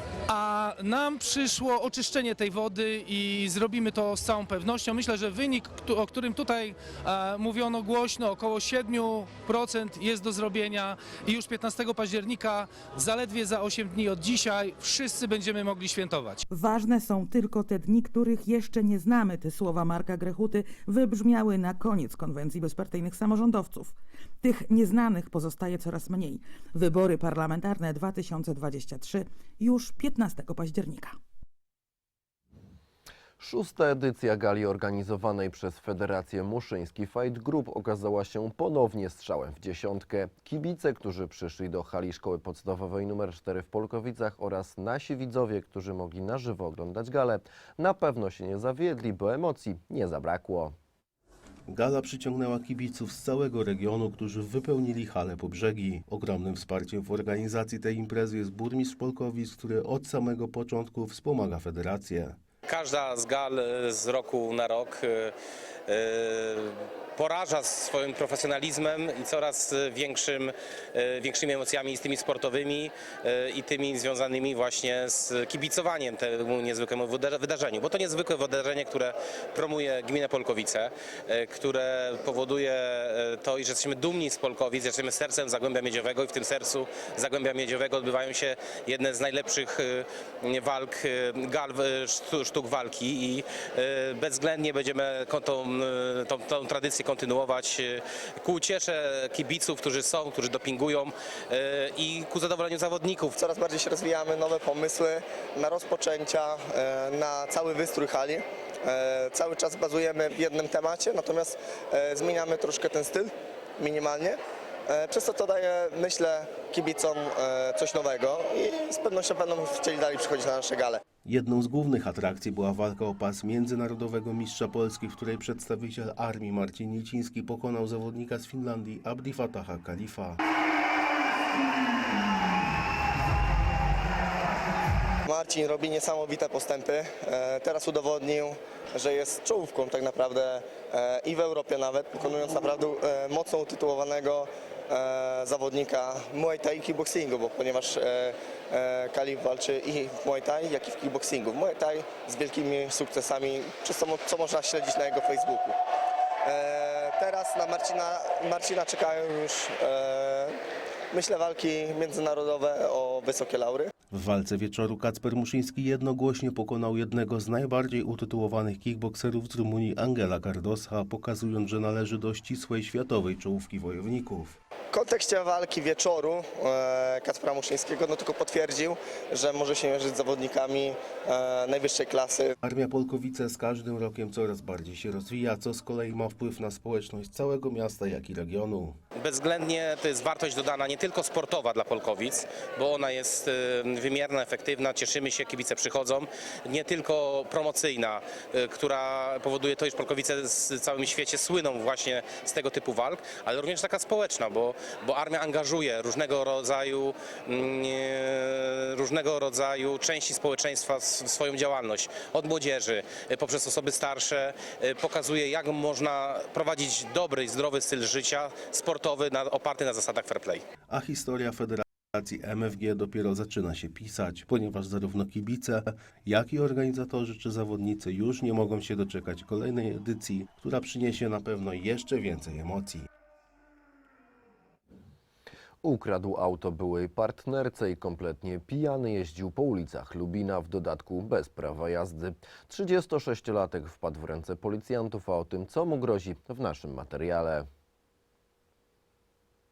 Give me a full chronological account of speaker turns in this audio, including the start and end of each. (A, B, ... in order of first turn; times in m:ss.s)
0:00.3-0:16.4 A
0:16.5-0:31.2 B
0:33.4-0:50.7 C
0:51.7-1:02.4 D
1:02.7-1:05.3 E
1:05.9-1:43.4 E
1:43.4-2:01.0 F
2:01.2-2:10.4 D
2:15.3-2:35.8 F
2:36.4-2:40.6 F
2:41.1-2:43.9 F
2:44.1-2:54.6 D
2:54.9-3:02.5 F
3:02.6-3:09.0 D
3:09.2-3:40.6 E
3:40.9-3:53.1 D
3:55.8-4:07.7 C